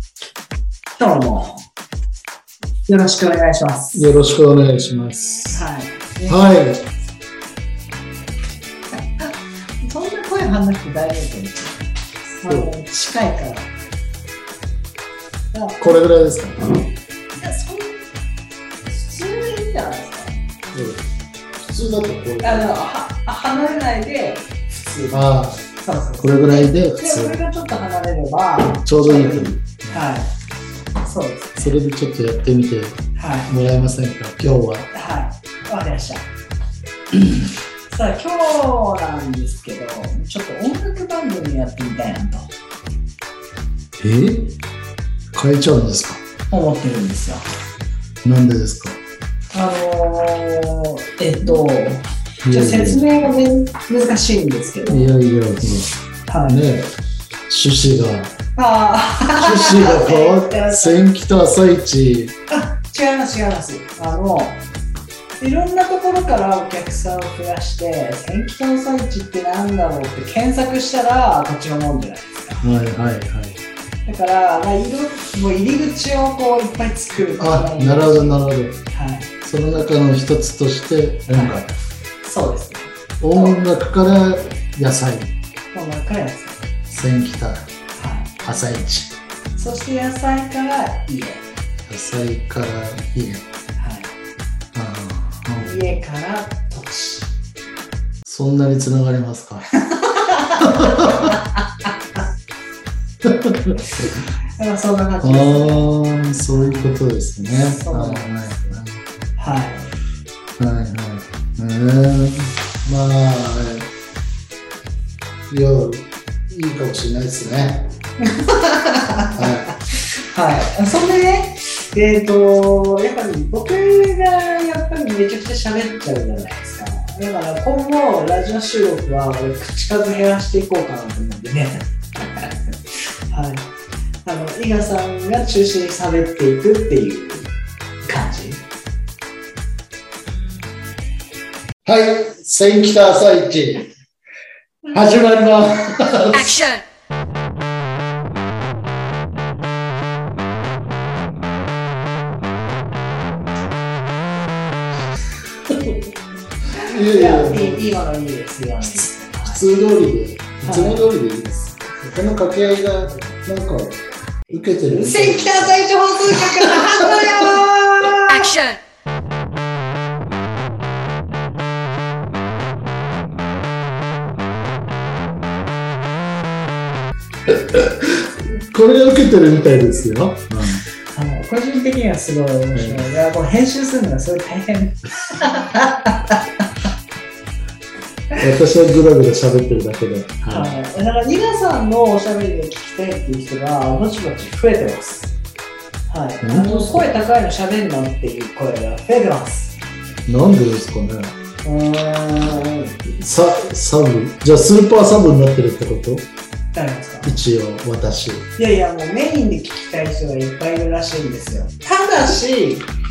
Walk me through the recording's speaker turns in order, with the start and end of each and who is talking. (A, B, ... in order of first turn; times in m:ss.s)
0:01.0-0:01.6 A
0:02.9-0:04.1 A
0:03.9-0:05.6 B
0:05.5-0:06.6 A
0:06.3-0:06.8 B
0:09.2-0:11.8 A
0:12.4-0:13.7 A
0:12.4-0:12.7 B
0:15.5-0:16.0 A
0:15.8-0:16.7 B
0:17.4-0:18.0 A
0:18.8-0:20.4 A
0:20.7-0:22.7 B
0:22.4-0:25.2 A
0:25.1-0:25.6 B
0:25.8-0:30.3 A
0:26.2-0:27.4 B
0:28.8-0:30.0 B
0:31.0-0:31.8 A
0:31.6-0:34.9 B
0:33.2-0:33.5 A
0:34.9-0:36.3 A
0:37.1-0:42.5 A
0:44.0-0:44.6 B
0:45.3-0:46.2 B
0:46.5-0:47.4 A
0:48.2-0:49.0 B
0:49.5-0:55.1 A
0:52.4-0:53.0 B
0:54.9-0:55.9 B
0:56.3-0:56.6 A
0:56.4-0:56.9 B
0:57.5-0:58.3 B
0:58.6-1:01.0 A
0:59.4-1:02.3 B
1:02.5-1:04.6 A
1:05.4-1:12.7 A
1:12.6-1:13.6 B
1:14.0-1:19.3 A
1:17.4-1:18.8 B
1:19.4-1:21.7 B
1:21.3-1:21.6 A
1:22.2-1:23.6 A
1:23.2-1:25.3 B
1:25.7-1:26.6 A
1:26.9-1:27.7 B
1:28.0-1:28.3 A
1:28.4-1:29.1 B
1:29.6-1:31.5 A
1:31.9-1:33.4 B
1:33.8-1:34.1 A
1:34.7-1:36.0 B
1:35.6-1:37.3 A
1:38.2-1:39.7 B
1:39.7-1:42.2 A
1:40.6-1:41.4 B
1:43.2-1:44.2 B
1:43.8-1:45.9 A
1:45.2-1:49.0 B
1:46.5-1:48.8 A
1:49.4-1:49.9 A
1:50.6-1:53.9 B
1:55.5-1:57.9 B
1:58.2-2:13.7 A
1:59.4-1:59.7 B
2:14.2-2:17.5 A
2:18.0-2:18.6 A
2:21.8-2:23.9 B
2:24.9-2:26.8 B
2:35.7-2:36.0 B
2:36.8-2:37.9 B
2:36.8-2:39.6 A
2:39.4-2:47.5 B
2:40.6-2:41.1 A
2:42.0-2:42.2 A
2:43.0-2:43.3 A
2:44.5-2:48.7 A
2:57.5-3:00.8 B
3:01.1-3:06.6 A
3:02.7-3:03.0 B
3:08.4-3:10.8 B
3:10.5-3:15.3 A
3:16.1-3:19.8 A
3:16.4-3:17.1 B
3:20.3-3:21.3 B
3:21.6-3:23.0 A
3:23.1-3:26.3 B
3:26.7-3:27.3 A
3:27.2-3:28.5 B
3:28.6-3:32.9 A